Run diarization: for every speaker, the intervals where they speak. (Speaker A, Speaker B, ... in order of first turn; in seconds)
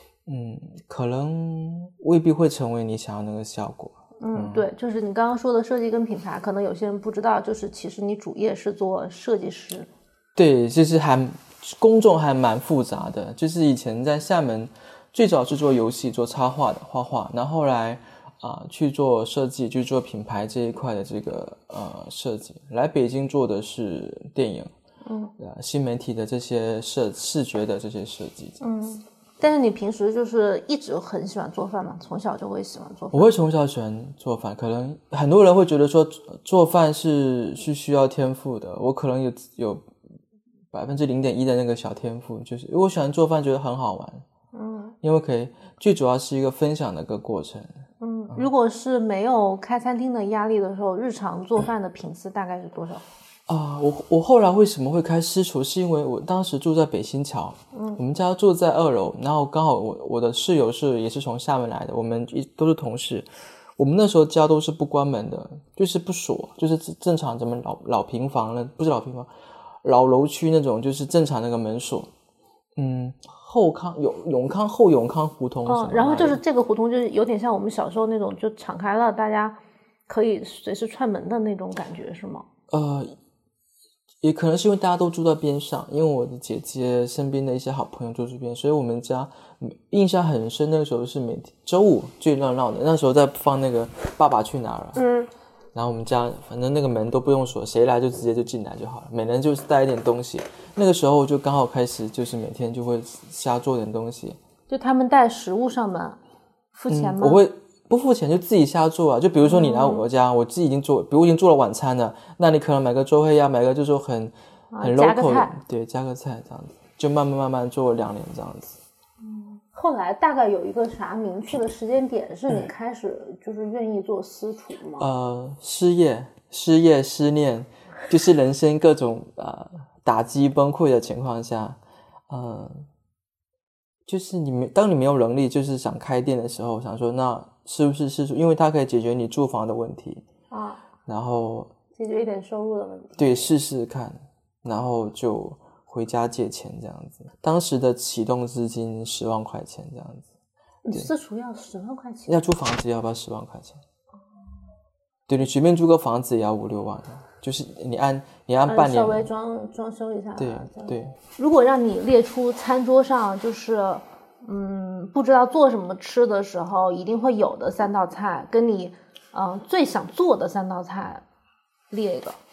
Speaker A: 0.3-4.7, 10.4-24.7, 25.4-28.6, 33.1-39.9, 40.7-44.2, 45.0-48.5, 53.5-63.3, 63.8-69.3, 69.8-72.1, 72.8-76.4, 82.7-83.2, 84.2-95.0, 95.8-104.4, 106.9-118.8, 125.0-132.9, 134.1-140.2, 141.1-141.7, 143.2-150.3, 152.3-153.8, 155.3-159.3, 160.4-161.2
Speaker B: 4.2-9.9, 25.0-25.3, 28.6-33.3, 44.5-45.0, 48.0-53.0, 57.7-58.0, 75.7-79.6, 80.1-82.5, 95.0-95.3, 104.7-106.2, 106.8-107.4, 109.5-110.1, 114.7-115.6, 119.2-125.1, 140.5-140.8, 142.0-143.5, 150.8-152.4, 158.7-171.2, 171.9-172.4